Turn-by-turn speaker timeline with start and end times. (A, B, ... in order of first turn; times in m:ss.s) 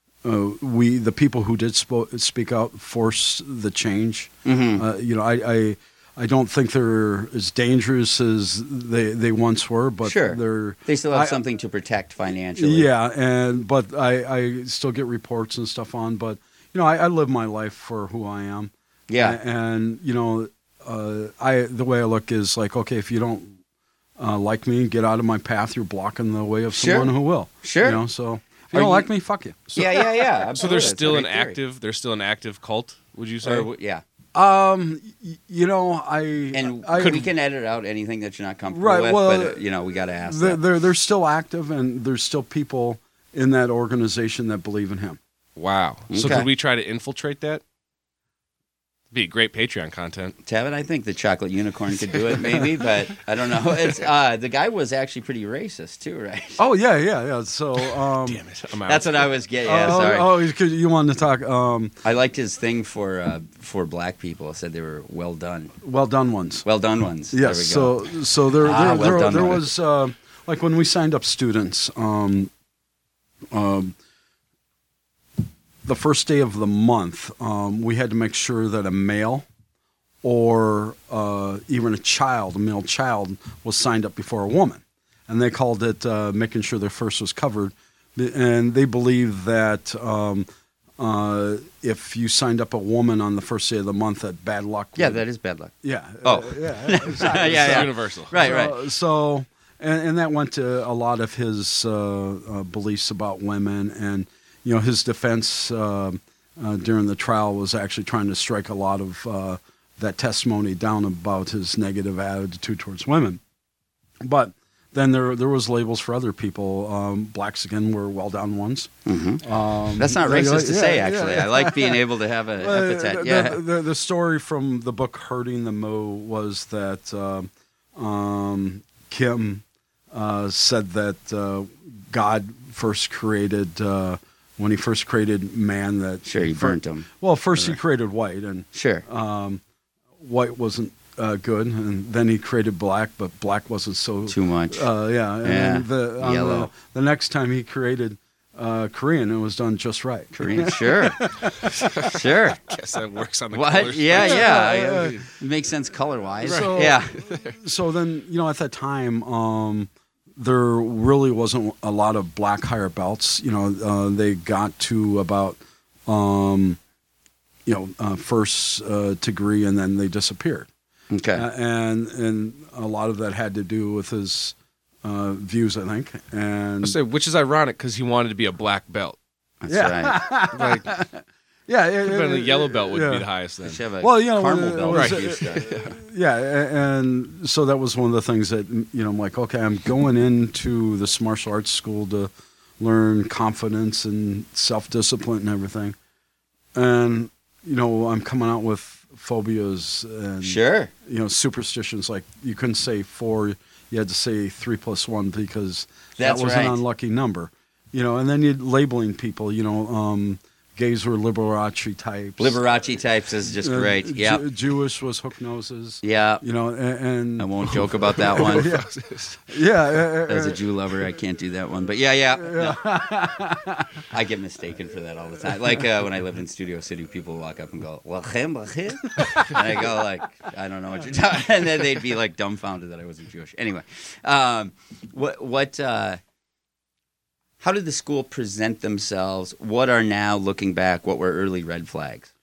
0:00.2-0:11.4 A
0:04.4-0:04.8 B
0:10.0-0:12.9 B
0:12.6-0:23.6 A
0:19.1-0:19.4 B
0:24.2-0:29.8 A
0:26.7-0:28.0 B
0:28.7-0:29.1 B
0:29.7-0:31.6 B
0:29.7-0:33.7 C
0:33.4-0:34.0 B
0:34.3-0:37.3 A
0:36.5-0:40.6 B
0:38.7-0:39.6 A
0:40.2-0:45.2 A
0:45.6-0:47.6 C
0:46.1-0:46.5 B
0:49.1-0:50.4 C
0:50.4-0:56.6 B
0:56.6-0:58.4 A
0:57.8-0:59.3 C
0:58.9-1:00.3 B
0:59.6-1:01.9 A
1:02.0-1:05.7 B
1:05.8-1:06.6 A
1:06.6-1:08.0 B
1:07.3-1:12.5 A
1:08.6-1:09.7 B
1:13.5-1:14.0 A
1:15.8-1:19.4 A
1:20.2-1:30.5 A
1:31.0-1:35.2 A
1:35.0-1:35.7 B
1:35.8-1:53.4 A
1:36.2-1:38.8 B
1:37.2-1:38.3 C
1:54.2-2:02.0 A
1:59.0-2:03.6 B
2:02.6-2:19.6 A
2:16.2-2:17.8 B
2:18.7-2:19.0 B
2:20.2-2:32.2 A
2:24.3-2:24.9 B
2:25.4-2:26.7 B
2:30.3-2:31.3 B
2:31.6-2:35.3 C
2:32.0-2:32.6 B
2:33.5-2:37.1 B
2:34.1-2:35.2 A
2:36.4-2:46.8 A
2:36.4-2:37.6 C
2:47.6-2:50.7 A
2:51.1-2:51.4 B
2:51.3-2:57.0 A
2:56.8-2:59.2 C
2:59.6-3:00.2 B
2:59.7-3:03.2 A
3:00.5-3:01.0 C
3:02.0-3:03.8 C
3:03.6-3:05.8 B
3:04.0-3:16.0 A
3:04.9-3:05.9 C
3:16.7-3:32.6 A
3:20.4-3:20.9 B
3:26.2-3:26.8 B
3:32.4-3:34.4 B
3:33.5-3:38.9 A
3:36.0-3:36.4 B
3:37.4-3:38.8 B
3:38.2-3:39.4 C
3:39.5-3:40.6 A
3:40.3-3:42.8 B
3:42.4-3:44.0 A
3:44.1-3:56.2 B
3:49.2-3:49.8 A
3:57.6-4:02.3 B